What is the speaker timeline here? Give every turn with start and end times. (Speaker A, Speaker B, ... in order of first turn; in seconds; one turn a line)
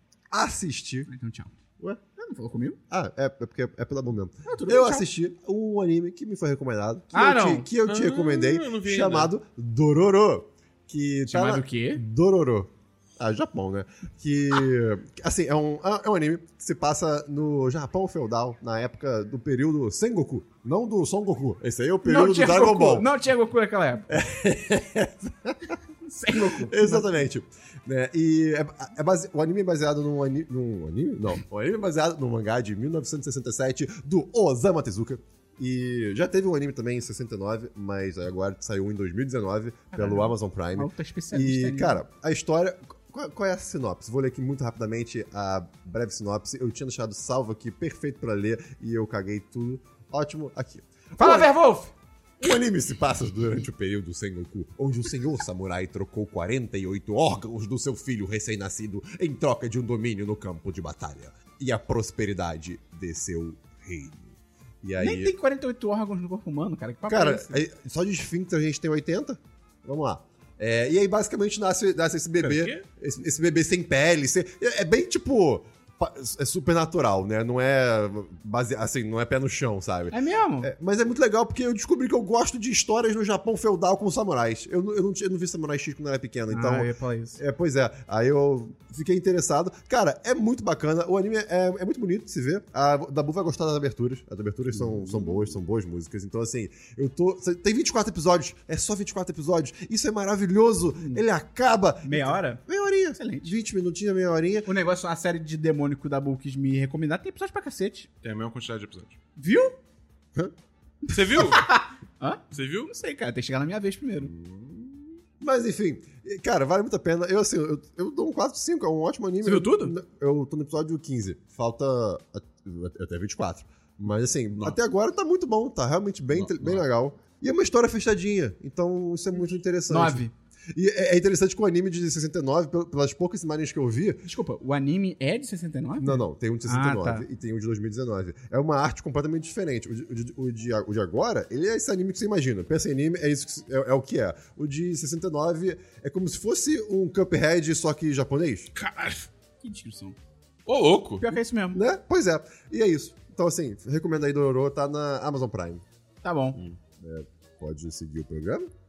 Speaker A: 0.3-1.1
Speaker B: 1.1-1.6
Speaker B: 2.1-2.8
Speaker A: 2.9-23.1
Speaker B: 4.5-5.1
Speaker B: 7.1-7.7
Speaker C: 7.9-9.3
Speaker B: 11.3-12.0
Speaker B: 22.1-24.1
Speaker A: 24.1-25.8
Speaker B: 26.1-27.1
Speaker A: 26.3-51.5
Speaker B: 39.9-42.0
Speaker B: 51.2-51.9
Speaker A: 52.4-65.3
Speaker B: 65.0-67.6
Speaker A: 67.1-104.7
Speaker C: 72.4-72.8
Speaker B: 80.1-80.7
Speaker B: 86.5-87.4
Speaker B: 102.0-102.6
Speaker B: 103.2-103.6
Speaker B: 104.7-108.1
Speaker C: 108.2-109.2
Speaker B: 109.4-109.8
Speaker B: 111.1-114.3
Speaker C: 111.1-111.7
Speaker C: 112.5-112.9
Speaker A: 115.4-134.2
Speaker B: 119.4-120.0
Speaker C: 126.3-126.8
Speaker B: 129.9-130.3
Speaker B: 134.2-137.3
Speaker A: 136.0-148.7
Speaker C: 148.8-149.3
Speaker B: 149.6-150.2
Speaker C: 150.7-151.3
Speaker B: 151.2-151.8
Speaker A: 151.7-155.8
Speaker B: 156.2-156.6
Speaker A: 157.0-158.7